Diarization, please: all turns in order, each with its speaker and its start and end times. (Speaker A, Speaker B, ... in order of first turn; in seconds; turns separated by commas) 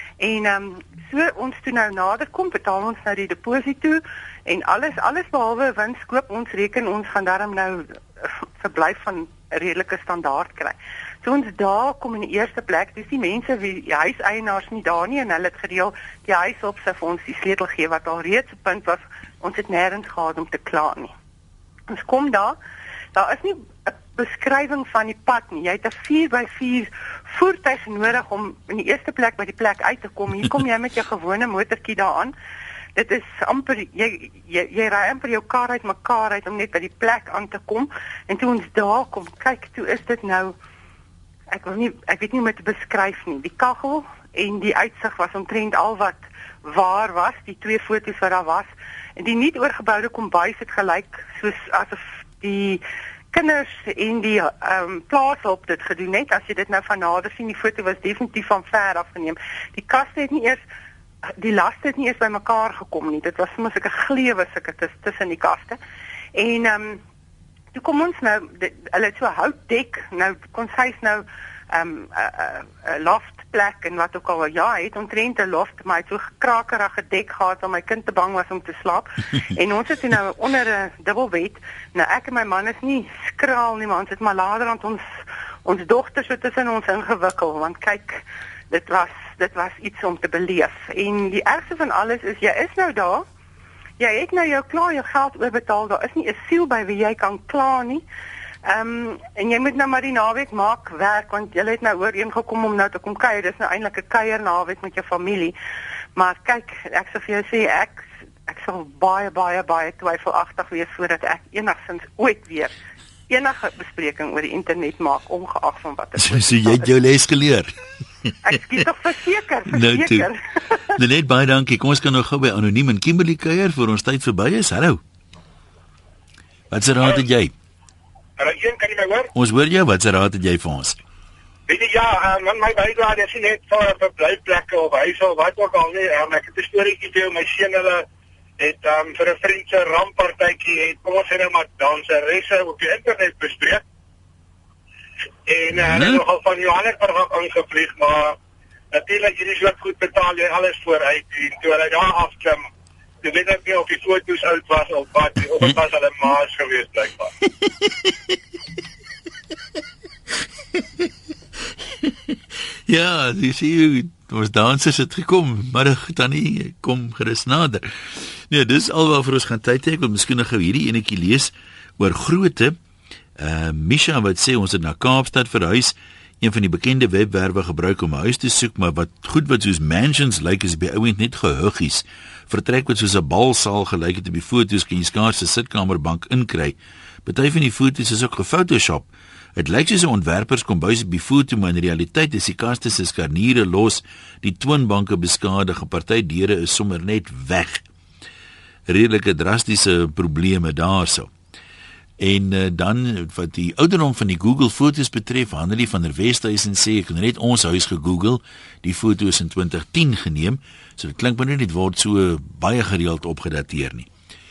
Speaker A: 0.2-21.1, Speaker A: 21.9-22.6, Speaker A: 23.1-32.3, Speaker A: 32.9-40.5, Speaker A: 41.5-60.6, Speaker A: 61.4-65.8, Speaker A: 66.3-67.0, Speaker A: 67.7-85.0, Speaker A: 85.6-93.2, Speaker A: 94.0-98.0, Speaker A: 98.6-105.5, Speaker A: 106.1-112.7, Speaker A: 113.3-116.9, Speaker B: 116.2-117.7, Speaker A: 118.4-120.8, Speaker B: 119.7-120.3, Speaker B: 120.9-125.0, Speaker B: 126.7-127.5, Speaker C: 128.4-129.3, Speaker B: 129.3-131.0, Speaker C: 131.7-138.1, Speaker C: 138.6-143.8, Speaker C: 145.4-148.4, Speaker B: 145.8-146.2, Speaker C: 148.9-152.6, Speaker C: 153.2-157.3, Speaker B: 162.9-172.8, Speaker B: 173.4-197.8, Speaker B: 198.9-201.3, Speaker B: 202.2-214.1